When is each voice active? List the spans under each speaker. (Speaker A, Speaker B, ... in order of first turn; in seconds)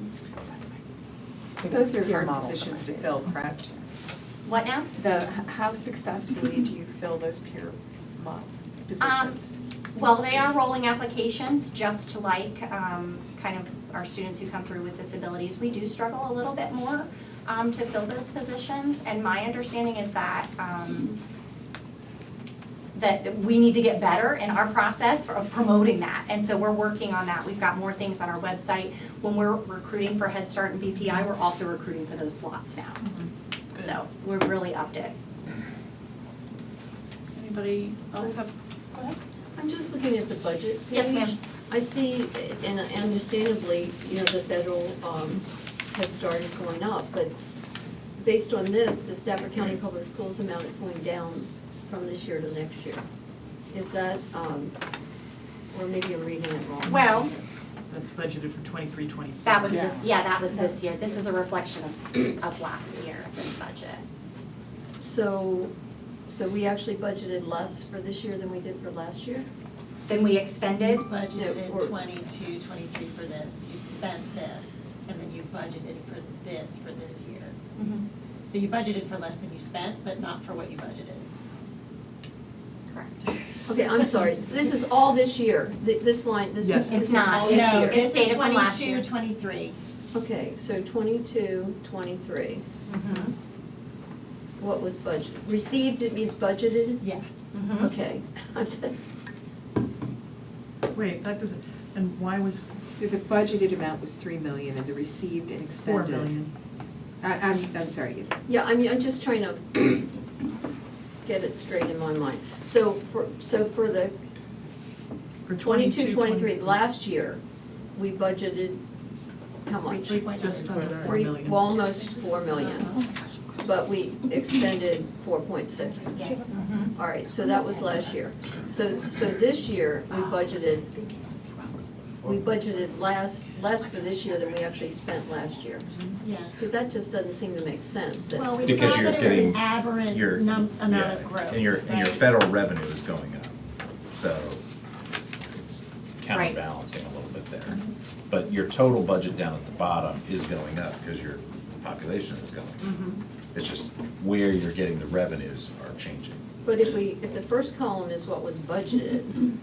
Speaker A: 1.6-3.8, 5.0-9.5, 102.8-106.4, 107.2-108.3
Speaker B: 1.7-2.9, 33.1-34.0, 37.4-39.2, 56.9-60.1, 86.6-87.1, 100.9-102.7, 105.8-106.5, 115.5-116.8, 120.2-121.9
Speaker C: 4.4-4.9, 9.0-9.4, 9.9-21.2, 22.9-33.1, 33.8-35.2, 40.9-41.4, 56.9-57.4, 59.4-64.0, 70.1-71.1, 77.8-78.1, 82.9-83.3, 86.9-89.1, 92.9-93.3, 97.5-97.9, 126.5-126.9, 146.3-146.6, 152.8-153.2
Speaker D: 39.5-47.3, 48.2-53.0, 53.7-54.8, 55.7-57.1, 65.0-65.7, 66.3-69.5, 71.3-72.0, 83.7-88.0, 90.1-92.6, 94.6-97.0, 97.8-99.0, 108.5-110.1, 111.2-114.1, 115.6-117.4, 117.9-118.8, 119.7-123.0, 123.6-126.2, 127.0-131.0, 132.2-136.0, 136.6-139.0, 156.6-159.5
Speaker E: 71.0-77.5, 78.5-81.3, 87.4-89.8, 119.9-121.2, 121.9-123.1, 126.2-126.8, 136.2-136.6, 138.3-142.3
Speaker F: 138.6-143.6, 144.1-144.6, 145.4-152.9, 153.5-156.4